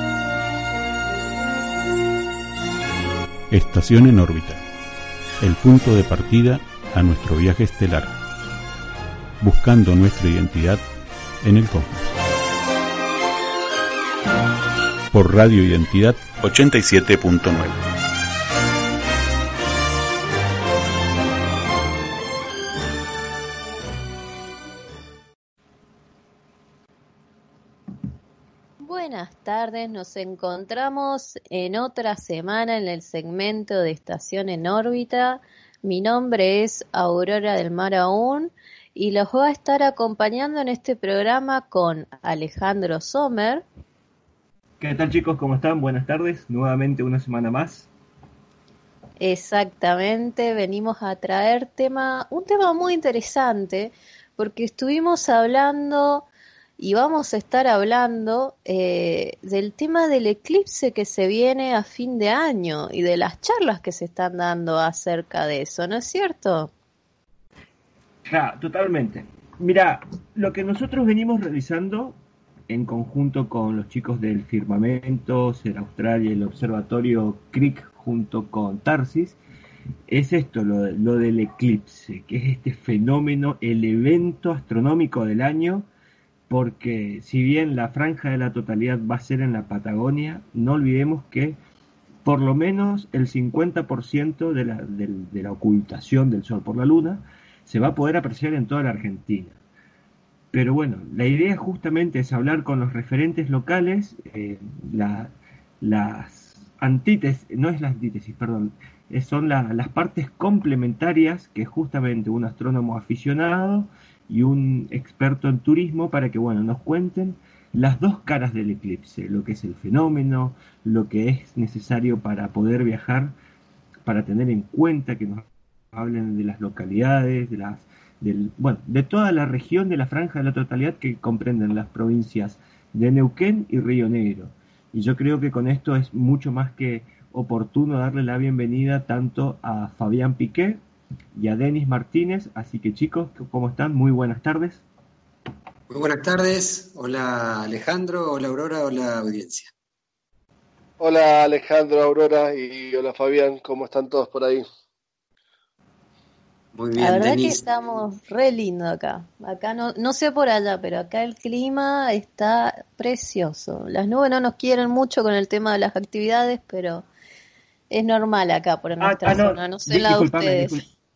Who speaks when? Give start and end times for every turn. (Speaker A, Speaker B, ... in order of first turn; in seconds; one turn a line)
Speaker A: 3.5-4.6
Speaker A: 5.4-8.2
Speaker A: 9.4-10.8
Speaker A: 11.4-12.1
Speaker A: 15.1-17.8
Speaker B: 28.8-43.6
Speaker C: 44.8-47.9
Speaker B: 49.2-56.2
Speaker B: 56.8-66.7
Speaker C: 68.2-72.2
Speaker C: 72.7-79.4
Speaker C: 80.1-85.9
Speaker C: 86.5-91.6
Speaker C: 92.2-99.6
Speaker C: 100.5-123.3
Speaker C: 124.0-140.8
Speaker C: 141.3-144.8
Speaker D: 145.9-149.7
Speaker E: 151.0-154.6
Speaker D: 156.7-157.6
Speaker B: 156.9-167.1
Speaker B: 167.9-170.8
Speaker C: 169.0-170.9